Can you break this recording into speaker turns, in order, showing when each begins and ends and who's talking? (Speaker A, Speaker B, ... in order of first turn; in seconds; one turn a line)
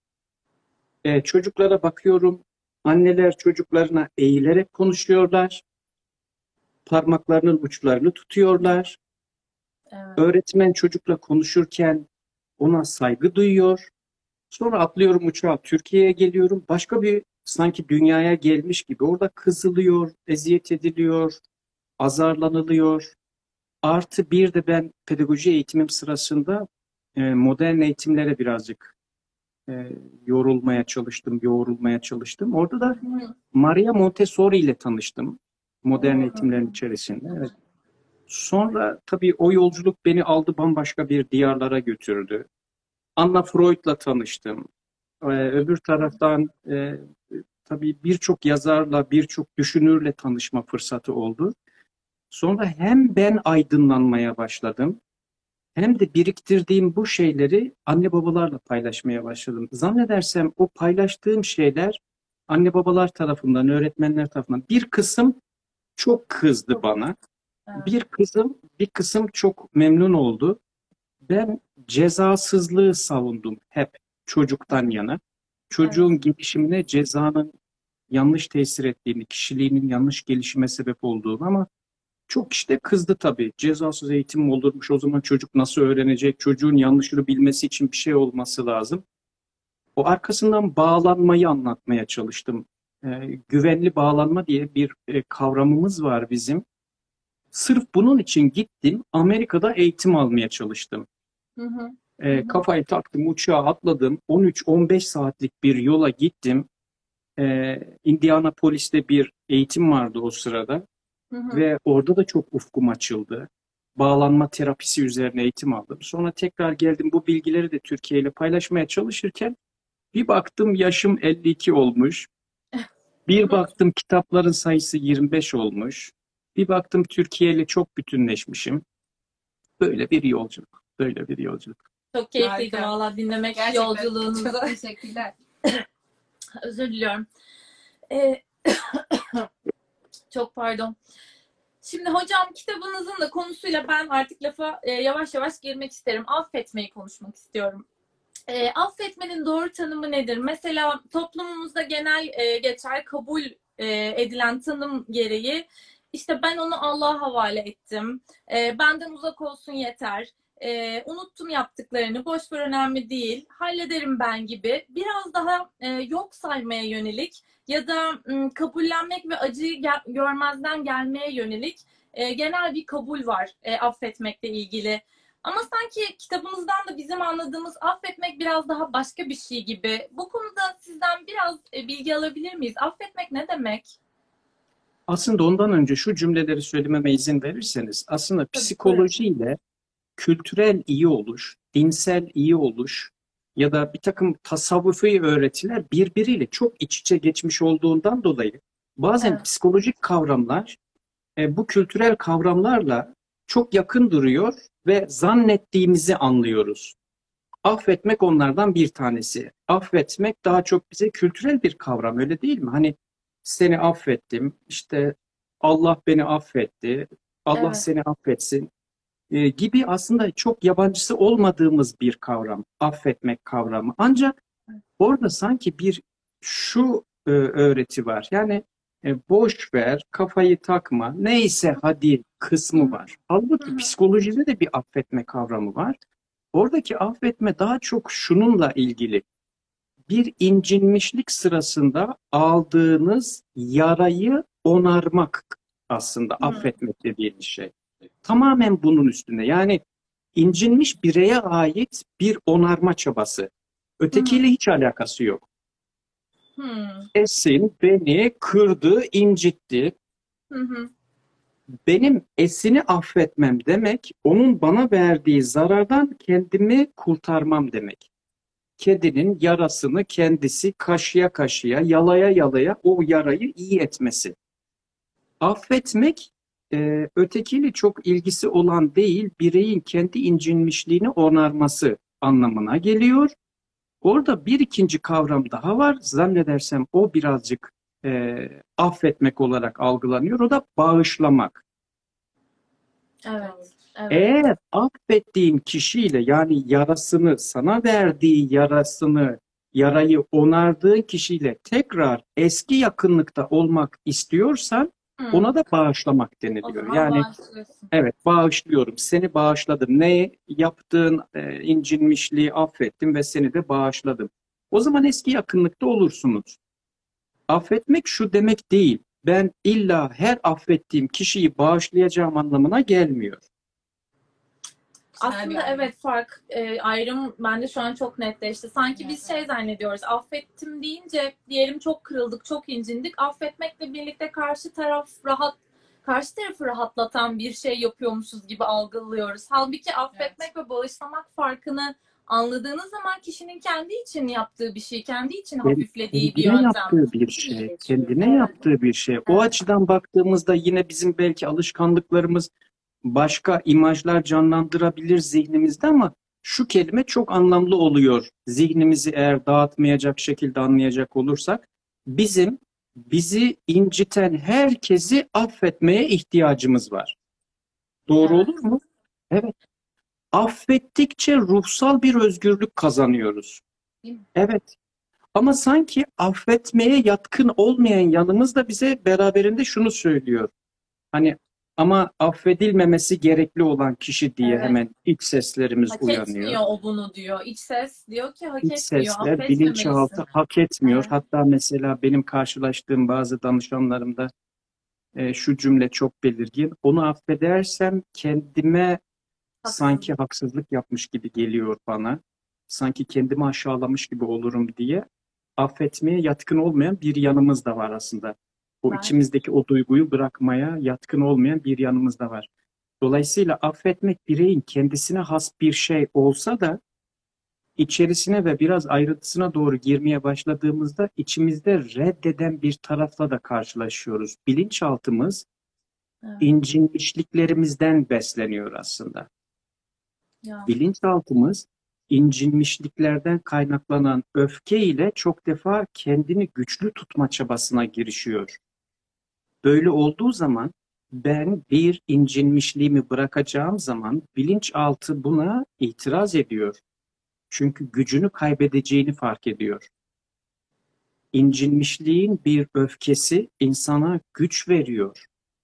Speaker A: 1.0-5.6
Speaker A: 6.8-9.0
Speaker B: 9.9-10.2
Speaker A: 10.2-12.1
Speaker A: 12.6-13.9
Speaker A: 14.5-21.4
Speaker A: 22.0-23.1
Speaker A: 23.8-26.6
Speaker A: 27.1-28.9
Speaker A: 29.7-33.0
Speaker B: 33.0-33.3
Speaker A: 33.5-37.5
Speaker B: 36.0-36.7
Speaker A: 38.3-42.5
Speaker A: 43.2-44.7
Speaker A: 45.2-51.5
Speaker A: 52.3-55.0
Speaker A: 55.8-65.4
Speaker A: 66.0-67.1
Speaker A: 67.8-70.6
Speaker A: 71.3-75.2
Speaker A: 75.7-77.5
Speaker B: 75.8-76.1
Speaker A: 78.1-81.7
Speaker A: 82.3-89.0
Speaker A: 90.0-96.6
Speaker A: 97.5-101.0
Speaker B: 101.6-102.6
Speaker A: 102.2-106.7
Speaker A: 107.4-110.8
Speaker B: 111.3-111.6
Speaker A: 111.5-119.5
Speaker A: 120.1-122.3
Speaker A: 123.3-128.8
Speaker A: 129.8-131.8
Speaker B: 132.1-134.7
Speaker C: 132.4-132.9
Speaker C: 133.5-135.3
Speaker B: 136.6-137.2
Speaker B: 138.1-139.2
Speaker B: 140.3-140.9
Speaker B: 141.8-147.8
Speaker B: 148.5-183.9
Speaker A: 185.1-189.6
Speaker B: 188.5-189.1
Speaker A: 190.2-200.8
Speaker A: 201.4-206.9
Speaker A: 207.6-218.7
Speaker B: 217.5-217.8
Speaker A: 219.3-224.3
Speaker A: 225.0-236.0
Speaker B: 233.6-233.9
Speaker A: 236.5-239.2
Speaker A: 240.1-247.7
Speaker B: 246.4-246.7
Speaker A: 248.2-249.8
Speaker A: 250.3-255.4
Speaker B: 254.1-254.4
Speaker B: 256.6-257.1
Speaker A: 257.1-259.9
Speaker B: 260.5-260.9
Speaker A: 261.9-268.1
Speaker A: 268.8-274.3
Speaker A: 275.4-283.3
Speaker A: 284.0-291.6
Speaker B: 293.2-294.3
Speaker C: 293.4-293.7
Speaker A: 294.1-307.2
Speaker B: 305.2-305.5
Speaker B: 306.6-307.9
Speaker A: 307.9-316.6
Speaker A: 317.5-323.4
Speaker C: 325.1-325.9
Speaker B: 325.2-347.0
Speaker C: 329.0-329.4
Speaker C: 340.1-340.4
Speaker A: 345.6-352.5
Speaker C: 347.5-348.5
Speaker A: 353.0-367.1
Speaker A: 368.1-369.5
Speaker A: 370.3-373.6
Speaker A: 374.3-374.7
Speaker A: 375.3-380.5
Speaker A: 381.1-386.6
Speaker B: 384.4-384.8
Speaker B: 385.9-390.2
Speaker A: 388.6-394.3
Speaker B: 390.8-391.1
Speaker A: 395.1-399.0
Speaker B: 399.6-400.1
Speaker A: 399.6-405.1
Speaker A: 405.6-412.5
Speaker B: 408.9-409.1
Speaker A: 413.0-416.8
Speaker A: 417.8-425.4
Speaker A: 426.4-429.3
Speaker A: 430.6-438.6
Speaker A: 439.6-446.8
Speaker A: 447.5-449.9
Speaker A: 451.3-455.2